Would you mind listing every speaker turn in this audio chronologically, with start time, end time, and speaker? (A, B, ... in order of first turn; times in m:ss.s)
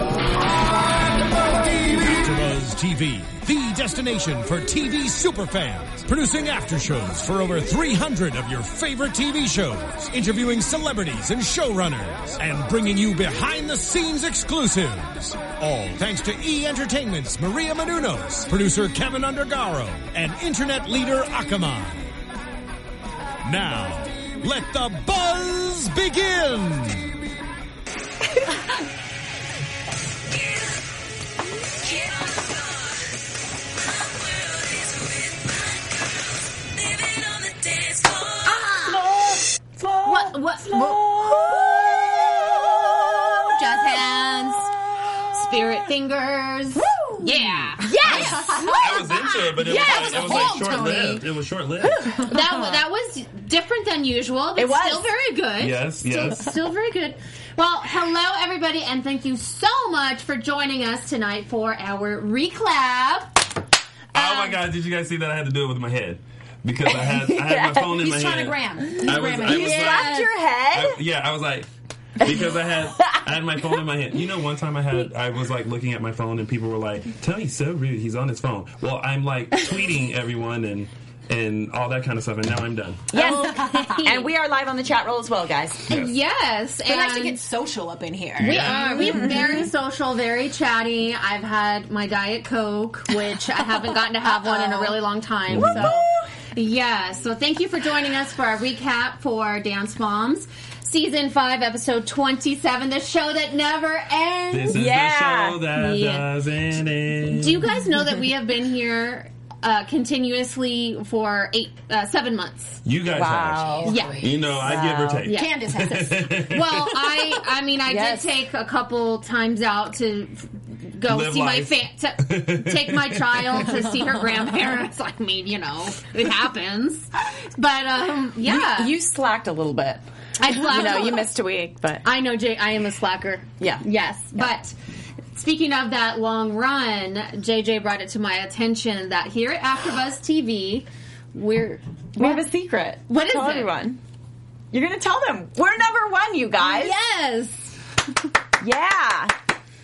0:01.4-0:22.1 A
0:23.4-0:27.1 A
0:37.6-0:43.6 B
0:38.4-0:39.0 C
0:40.0-0:41.6 C
0:43.4-0:44.7 C
0:45.3-0:48.4 C
0:46.8-0:51.2 D
0:47.8-0:48.6 B
0:48.2-0:52.2 E
0:49.6-0:50.6 B
0:49.7-0:50.6 C
0:51.8-0:52.8 D
0:52.3-1:03.4 C
0:54.6-0:55.1 B
0:55.6-0:56.5 E
1:04.1-1:23.1 E
1:04.2-1:04.6 C
1:06.9-1:07.8 B
1:07.8-1:10.2 D
1:09.3-1:11.0 B
1:23.1-1:25.9 B
1:23.2-1:24.3 C
1:23.2-1:24.1 D
1:25.9-1:27.4 C
1:26.8-1:29.7 D
1:28.4-1:44.8 C
1:28.4-1:29.0 E
1:29.0-1:29.4 B
1:34.2-1:34.9 D
1:35.5-1:35.9 E
1:35.5-1:36.2 B
1:44.5-1:47.7 E
1:44.7-1:45.7 B
1:45.7-1:46.3 C
1:47.3-1:52.8 C
1:52.8-1:56.9 E
1:53.1-1:54.0 B
1:53.6-1:54.5 D
1:53.8-1:54.5 C
1:54.6-1:55.3 B
1:55.2-2:08.9 C
1:55.3-1:57.4 D
1:57.9-1:58.4 B
2:01.1-2:03.6 E
2:08.4-2:12.0 B
2:10.4-2:11.3 C
2:12.0-2:14.7 C
2:15.3-2:22.4 C
2:22.2-2:24.0 B
2:23.1-2:23.8 C
2:24.7-2:27.0 B
2:26.6-2:27.7 C
2:28.6-2:29.3 B